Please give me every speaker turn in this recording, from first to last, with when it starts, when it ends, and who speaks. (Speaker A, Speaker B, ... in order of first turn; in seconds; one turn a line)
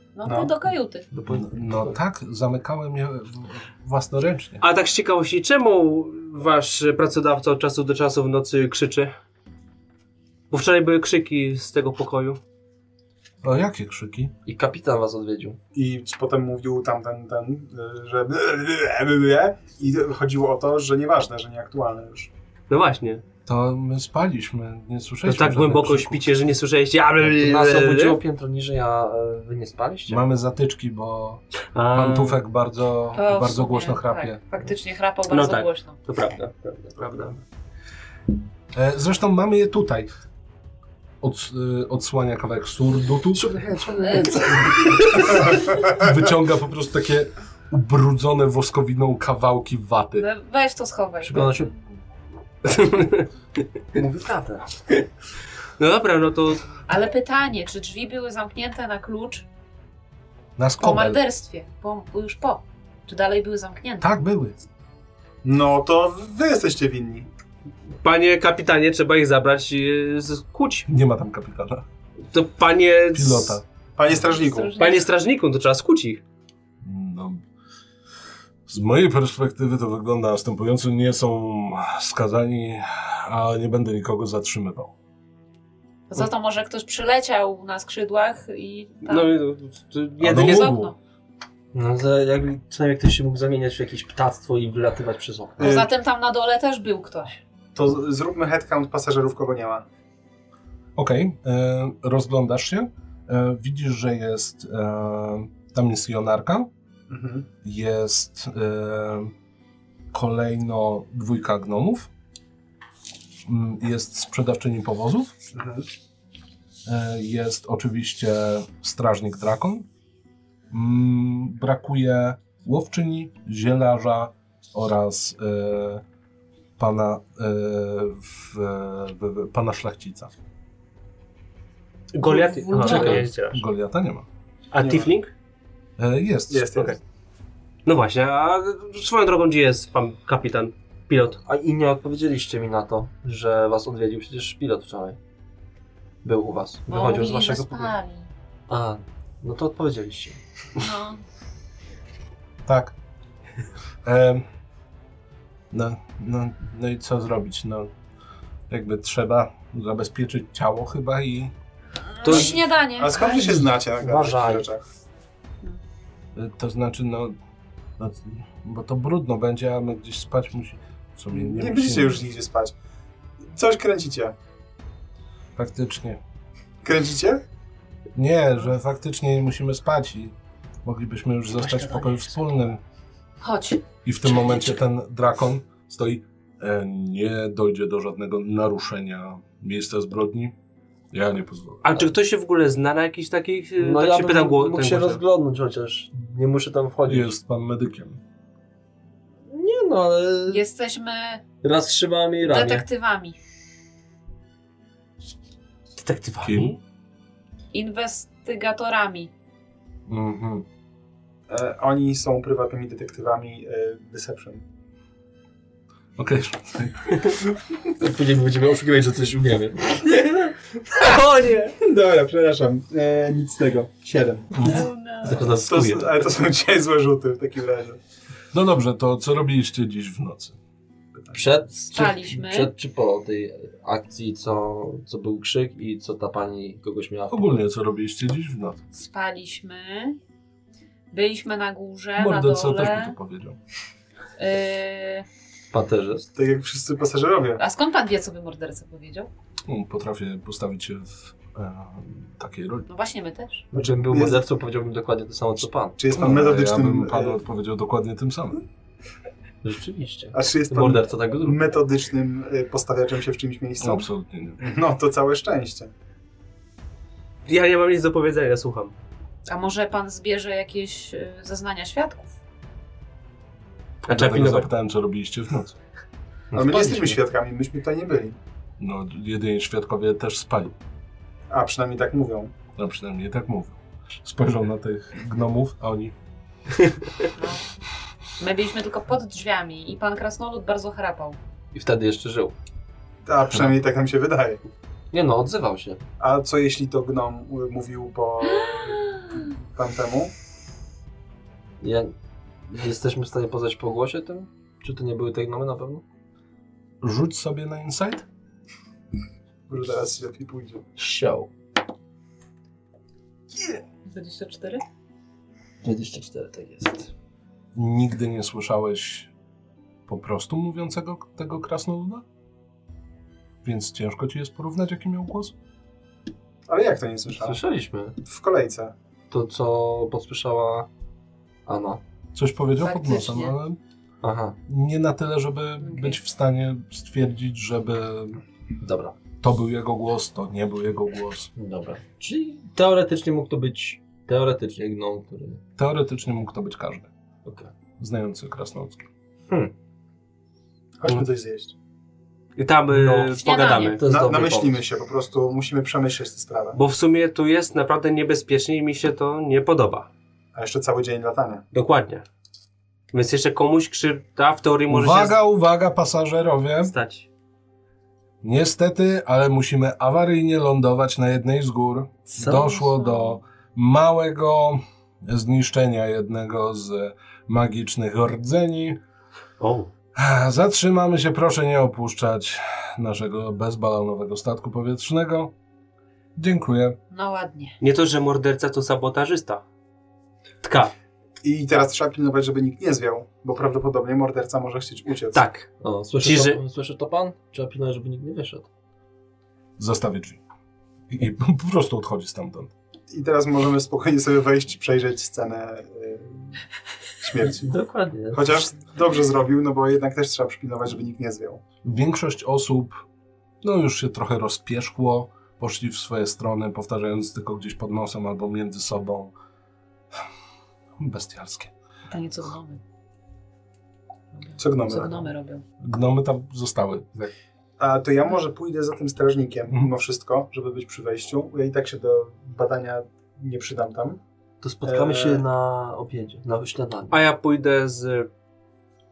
Speaker A: 0.1-1.1
Speaker B: 0.2-0.6
Speaker C: 1.1-2.0
Speaker D: 1.3-4.6
Speaker E: 4.6-9.1
Speaker E: 10.5-12.4
Speaker D: 13.4-14.3
Speaker C: 14.5-15.6
Speaker B: 15.7-22.3
Speaker E: 22.7-23.2
Speaker D: 23.5-26.3
Speaker E: 25.2-28.2
Speaker C: 27.2-30.2
Speaker D: 30.1-34.4
Speaker E: 31.7-32.4
Speaker A: 33.1-36.0
Speaker E: 35.3-37.4
Speaker D: 38.7-40.1
Speaker D: 41.2-43.5
Speaker C: 43.3-45.4
Speaker A: 44.0-44.6
Speaker D: 45.7-50.3
Speaker A: 50.2-51.7
Speaker C: 51.2-51.8
Speaker E: 52.6-53.3
Speaker C: 54.0-54.7
Speaker E: 55.8-56.7
Speaker A: 56.9-59.5
Speaker D: 60.6-61.2
Speaker A: 60.8-64.2
Speaker D: 64.0-64.6
Speaker B: 65.4-67.3
Speaker E: 68.0-70.9
Speaker D: 70.9-71.8
Speaker E: 72.3-73.6
Speaker D: 73.1-73.6
Speaker B: 74.0-74.7
Speaker A: 74.1-75.1
Speaker E: 74.8-76.2
Speaker D: 76.8-77.4
Speaker D: 78.7-84.9
Speaker A: 86.1-89.3
Speaker E: 89.0-90.8
Speaker D: 90.2-90.9
Speaker A: 90.3-91.0
Speaker C: 91.7-95.8
Speaker B: 95.6-95.9
Speaker A: 95.6-97.4
Speaker B: 97.8-99.9
Speaker D: 101.0-106.7
Speaker B: 107.1-107.5
Speaker D: 107.6-109.3
Speaker D: 110.1-112.1
Speaker D: 113.5-115.3
Speaker B: 115.5-115.9
Speaker D: 116.9-119.9
Speaker D: 120.7-126.0
Speaker D: 126.8-130.3
Speaker E: 132.1-133.6
Speaker A: 132.2-133.2
Speaker D: 132.8-134.3
Speaker C: 132.8-133.2
Speaker E: 134.7-135.3
Speaker B: 134.8-135.1
Speaker D: 136.0-136.9
Speaker B: 136.5-137.0
Speaker E: 137.8-141.4
Speaker C: 141.4-145.2
Speaker C: 146.2-147.9
Speaker A: 146.9-148.3
Speaker C: 148.7-150.9
Speaker A: 150.8-151.2
Speaker D: 152.7-152.9
Speaker D: 154.0-154.5
Speaker D: 155.7-157.9
Speaker D: 158.7-161.5
Speaker A: 162.2-163.4
Speaker E: 162.2-162.6
Speaker B: 162.3-164.8
Speaker C: 163.3-164.7
Speaker D: 166.3-167.3
Speaker D: 168.0-172.2
Speaker B: 171.3-172.7
Speaker B: 173.5-174.3
Speaker D: 175.6-176.2
Speaker B: 176.8-177.4
Speaker D: 178.2-182.8
Speaker C: 181.8-182.2
Speaker A: 183.4-184.8
Speaker D: 184.1-190.6
Speaker D: 191.1-192.0
Speaker E: 191.8-195.2
Speaker C: 193.8-197.3
Speaker D: 197.1-198.2
Speaker C: 199.5-200.6
Speaker A: 200.5-201.4
Speaker C: 201.6-202.9
Speaker A: 202.4-203.4
Speaker E: 206.0-206.8
Speaker D: 206.4-206.8
Speaker A: 207.7-209.3
Speaker D: 210.1-210.7
Speaker B: 211.5-214.6
Speaker D: 216.2-217.3
Speaker C: 217.9-220.6
Speaker E: 220.9-221.7
Speaker B: 221.8-224.7
Speaker D: 224.6-224.8
Speaker A: 224.6-225.5
Speaker C: 225.2-226.2
Speaker B: 225.6-228.0
Speaker D: 228.5-230.6
Speaker B: 231.2-231.5
Speaker C: 231.3-237.6
Speaker A: 231.8-232.7
Speaker D: 237.3-238.8
Speaker A: 238.9-240.2
Speaker A: 241.1-243.2
Speaker D: 242.2-243.6
Speaker A: 244.4-245.3
Speaker C: 245.7-246.3
Speaker B: 246.3-247.6
Speaker A: 247.6-249.3
Speaker D: 249.7-252.9
Speaker A: 252.9-253.7
Speaker C: 253.7-256.0
Speaker B: 253.7-254.4
Speaker B: 256.0-257.4
Speaker D: 256.1-258.6
Speaker C: 259.6-261.6
Speaker B: 260.3-264.1
Speaker D: 263.8-264.6
Speaker B: 264.6-265.9
Speaker E: 267.5-269.0
Speaker A: 269.5-272.4
Speaker D: 274.0-275.8
Speaker E: 274.1-274.7
Speaker C: 276.5-277.2
Speaker B: 276.5-278.4
Speaker D: 278.8-280.8
Speaker B: 281.5-282.5
Speaker D: 282.8-286.1
Speaker A: 287.4-287.7
Speaker A: 288.4-291.4
Speaker C: 291.7-292.6
Speaker B: 293.3-294.6
Speaker C: 295.1-296.1
Speaker B: 296.2-300.3
Speaker C: 301.8-302.1
Speaker C: 302.7-306.0
Speaker D: 307.0-308.3
Speaker B: 309.7-310.9
Speaker C: 311.0-311.5
Speaker A: 314.1-314.8
Speaker C: 315.8-317.1
Speaker D: 317.8-319.3
Speaker D: 320.1-322.2
Speaker D: 323.6-325.6
Speaker B: 326.7-327.6
Speaker C: 327.3-328.2
Speaker B: 328.2-328.9
Speaker C: 329.3-330.9
Speaker C: 331.7-332.0
Speaker D: 332.3-333.8
Speaker A: 332.8-333.6
Speaker C: 334.2-334.6
Speaker D: 334.7-338.4
Speaker A: 335.8-336.2
Speaker C: 338.8-339.2
Speaker D: 339.4-341.5
Speaker C: 341.6-345.6
Speaker D: 345.8-347.1
Speaker C: 347.4-347.7
Speaker D: 348.0-349.1
Speaker B: 351.0-351.7
Speaker E: 352.6-354.0
Speaker C: 352.9-353.4
Speaker A: 353.4-354.0
Speaker C: 353.9-354.8
Speaker B: 354.1-356.8
Speaker E: 356.8-360.1
Speaker B: 360.6-361.6
Speaker E: 361.7-362.2
Speaker E: 363.1-365.4
Speaker D: 364.9-366.9
Speaker E: 366.9-367.3
Speaker D: 368.4-379.0
Speaker C: 372.4-372.8
Speaker A: 372.5-373.4
Speaker E: 379.6-379.9
Speaker D: 380.1-385.5
Speaker D: 386.4-387.0
Speaker A: 387.1-387.8
Speaker E: 387.8-389.6
Speaker E: 390.6-390.9
Speaker B: 391.4-395.4
Speaker E: 395.3-395.7
Speaker C: 395.8-398.7
Speaker E: 396.2-396.6
Speaker D: 399.8-400.4
Speaker D: 401.1-402.7
Speaker B: 403.1-406.6
Speaker B: 407.2-407.8
Speaker C: 407.5-408.6
Speaker B: 408.3-411.6
Speaker D: 411.8-413.0
Speaker D: 413.6-419.3
Speaker D: 421.0-421.7
Speaker A: 422.1-422.8
Speaker A: 424.4-425.6
Speaker B: 424.6-425.3
Speaker D: 425.8-427.3
Speaker B: 427.8-434.2
Speaker C: 434.6-437.2
Speaker B: 434.8-435.5
Speaker E: 437.1-438.3